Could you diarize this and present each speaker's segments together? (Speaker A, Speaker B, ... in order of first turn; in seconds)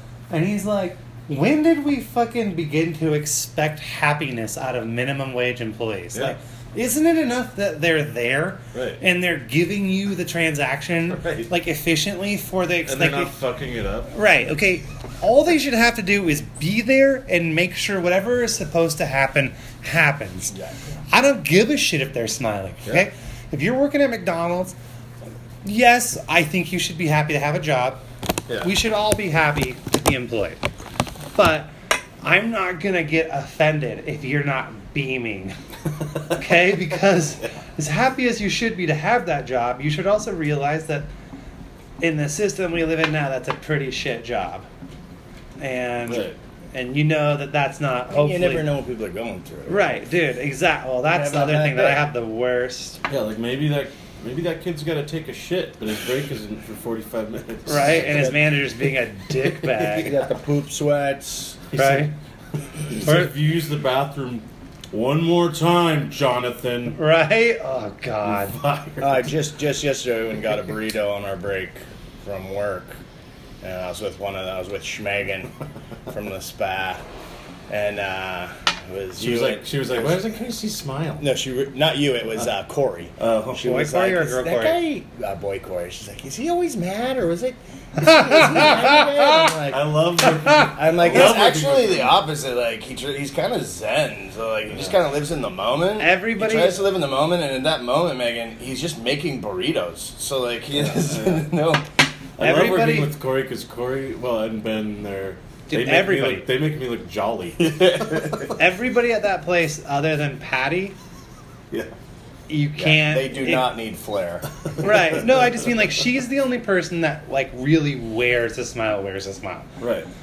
Speaker A: 0.3-13.3, 14.1-20.5, 21.1-24.8, 25.6-28.0, 28.6-30.6, 31.3-35.5, 36.3-41.1, 42.0-44.7, 45.6-48.7, 49.7-53.0, 57.7-60.2, 61.7-62.1, 63.0-63.3, 67.0-69.0, 83.6-84.8, 88.0-89.4, 96.0-96.8, 102.4-103.1, 105.7-106.5, 108.5-111.0, 112.5-113.8, 114.8-119.7
Speaker B: 8.7-9.0, 11.1-11.5, 12.8-14.1, 46.1-46.4, 53.1-58.4, 61.7-62.1, 62.9-67.0, 68.2-69.2, 79.2-81.3, 83.2-83.7, 88.6-89.0, 89.7-92.2, 100.8-101.5, 102.4-108.6, 114.8-115.5, 119.8-120.1
Speaker C: 20.5-21.0, 48.1-50.0, 51.0-52.1, 58.0-58.3, 59.8-61.6, 69.0-73.0, 73.6-75.5, 76.1-77.0, 77.7-80.3, 81.2-89.9, 90.7-101.8, 112.8-114.5